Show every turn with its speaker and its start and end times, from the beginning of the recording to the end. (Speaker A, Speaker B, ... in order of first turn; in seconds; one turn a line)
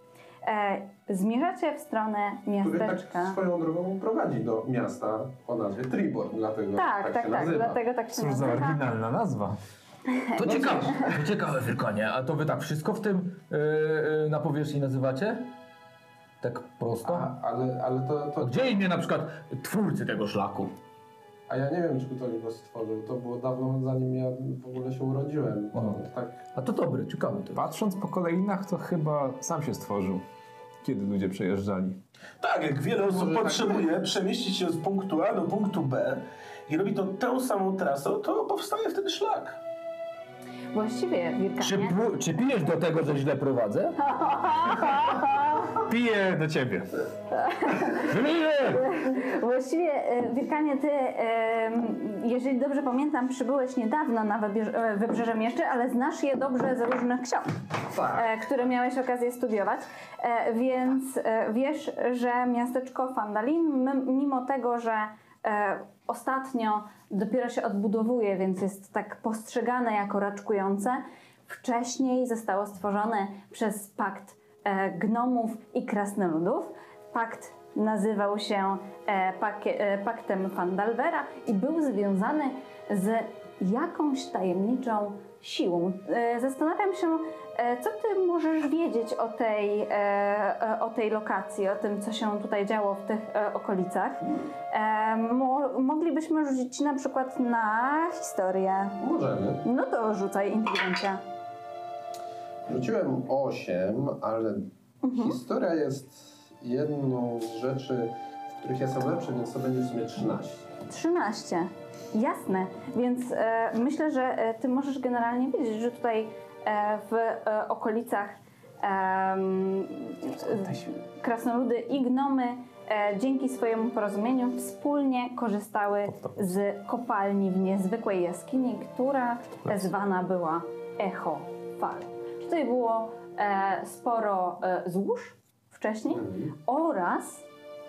Speaker A: 0.4-3.4
Speaker B: 2.6-7.8
Speaker A: 6.8-8.8
Speaker C: 8.1-9.6
Speaker A: 10.2-11.0
Speaker D: 10.3-15.5
Speaker B: 10.5-10.8
Speaker D: 16.4-17.3
Speaker B: 17.1-18.8
Speaker D: 18.4-20.7
Speaker B: 21.5-26.4
Speaker D: 26.6-27.6
Speaker C: 27.6-30.2
Speaker C: 30.8-32.0
Speaker E: 32.4-39.6
Speaker B: 33.1-33.9
Speaker A: 40.7-42.0
Speaker D: 41.6-44.0
Speaker A: 44.0-45.8
Speaker C: 45.8-46.9
Speaker A: 47.3-57.5
Speaker D: 48.0-48.8
Speaker B: 57.9-58.3
Speaker A: 58.1-99.0
Speaker B: 99.0-99.6
Speaker A: 99.6-101.2
Speaker B: 102.7-110.7
Speaker A: 105.0-105.4
Speaker A: 110.9-137.4
Speaker C: 120.3-120.9
Speaker C: 126.1-126.6
Speaker C: 129.7-129.9
Speaker B: 136.1-136.5